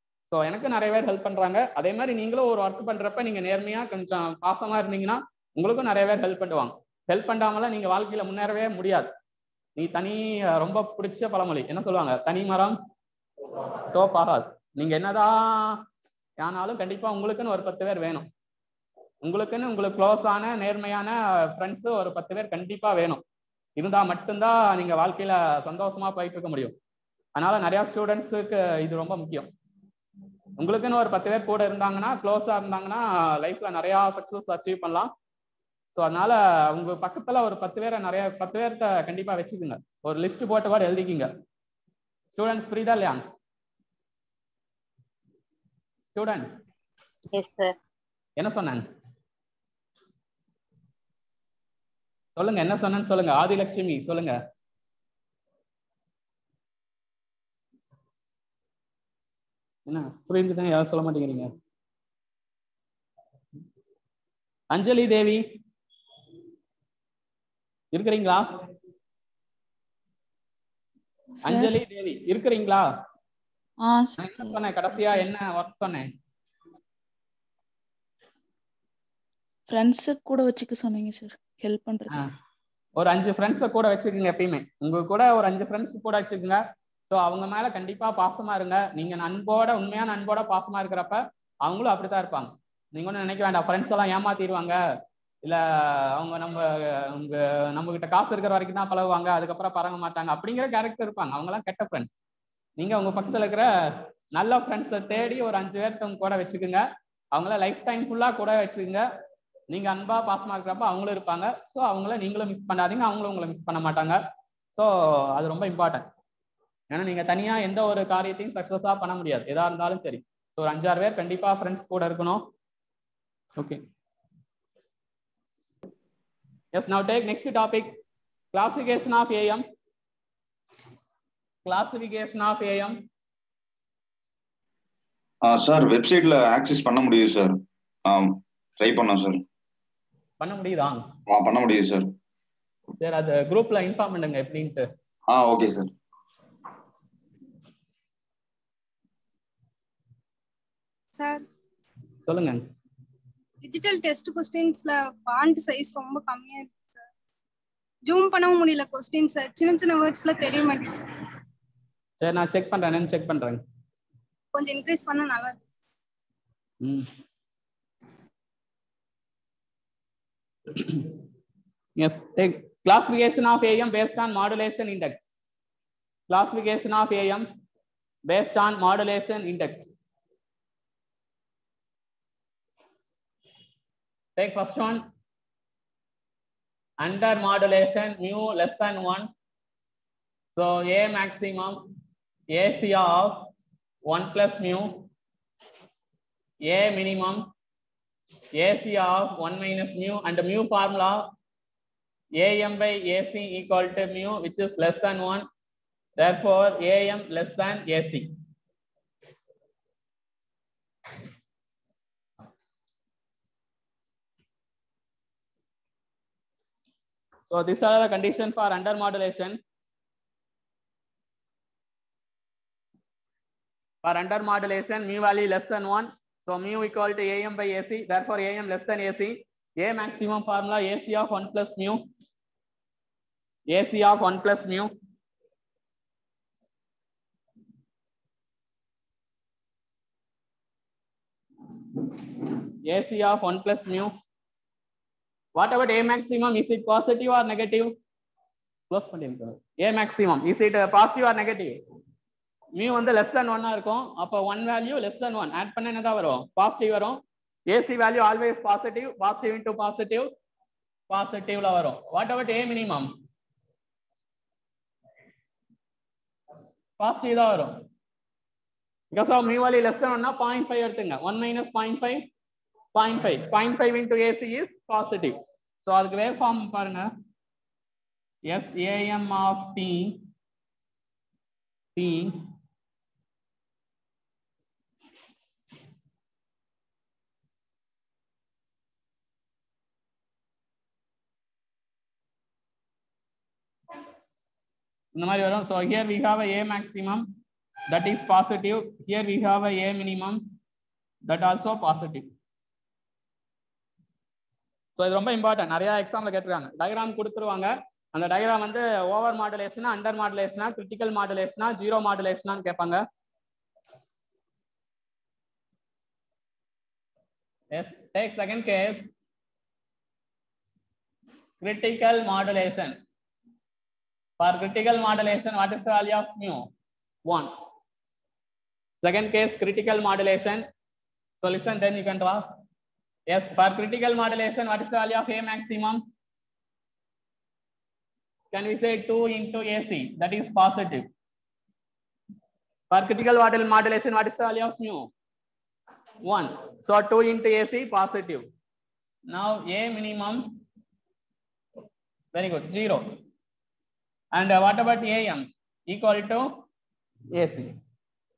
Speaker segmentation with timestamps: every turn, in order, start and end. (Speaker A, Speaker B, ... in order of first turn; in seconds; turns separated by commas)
Speaker A: 0.3-9.1, Speaker A: 9.8-12.8, Speaker A: 13.9-15.8, Speaker A: 16.4-18.3, Speaker A: 19.2-23.2, Speaker A: 23.8-26.7, Speaker A: 27.4-29.5, Speaker A: 30.6-35.1, Speaker A: 35.9-41.3, Speaker A: 42.3-43.2, Speaker A: 46.1-46.5, Speaker B: 47.3-47.8, Speaker A: 48.4-48.8, Speaker A: 52.4-54.4, Speaker A: 59.9-61.5, Speaker A: 64.7-65.4, Speaker A: 67.9-68.4, Speaker A: 71.4-72.8, Speaker B: 71.4-71.8, Speaker B: 73.8-75.2, Speaker A: 74.2-76.1, Speaker B: 79.7-82.2, Speaker A: 83.0-94.8, Speaker A: 95.4-102.1, Speaker A: 102.8-109.0, Speaker A: 109.7-114.2, Speaker A: 114.7-116.0, Speaker A: 116.9-122.4, Speaker A: 126.7-128.0, Speaker A: 128.5-129.6, Speaker A: 131.6-132.9, Speaker C: 135.4-139.4, Speaker A: 140.4-141.0, Speaker C: 141.3-142.1, Speaker A: 143.0-144.8, Speaker C: 145.3-145.9, Speaker D: 151.1-151.4, Speaker A: 152.2-152.6, Speaker D: 153.6-157.1, Speaker D: 158.0-161.2, Speaker A: 162.2-163.6, Speaker D: 164.5-165.7, Speaker A: 166.8-167.1, Speaker A: 170.8-171.1, Speaker A: 172.0-175.2, Speaker A: 176.3-177.5, Speaker A: 178.3-179.9, Speaker A: 184.4-185.0, Speaker A: 187.0-189.3, Speaker A: 190.6-191.8, Speaker A: 192.5-193.5, Speaker A: 194.1-195.0, Speaker A: 196.7-197.4, Speaker A: 198.6-201.2, Speaker A: 202.4-205.4, Speaker A: 206.2-208.2, Speaker A: 217.5-219.6, Speaker A: 224.0-232.0, Speaker A: 233.7-234.9, Speaker A: 242.9-244.1, Speaker A: 245.6-247.9, Speaker A: 248.9-251.8, Speaker A: 252.8-260.3, Speaker A: 261.1-263.1, Speaker A: 267.0-267.7, Speaker A: 269.1-272.2, Speaker A: 272.9-277.1, Speaker A: 278.5-280.2, Speaker A: 281.9-282.4, Speaker A: 295.1-297.2, Speaker A: 297.9-300.4, Speaker A: 301.3-302.3, Speaker A: 305.0-313.0, Speaker A: 317.7-319.1, Speaker A: 321.6-323.0, Speaker A: 324.4-326.6, Speaker A: 329.0-330.6, Speaker A: 331.4-332.4, Speaker A: 333.3-336.0, Speaker A: 338.5-341.1, Speaker A: 342.9-345.1, Speaker A: 346.2-348.4, Speaker A: 349.3-350.4, Speaker A: 352.3-353.0, Speaker A: 354.3-356.5, Speaker A: 357.3-357.7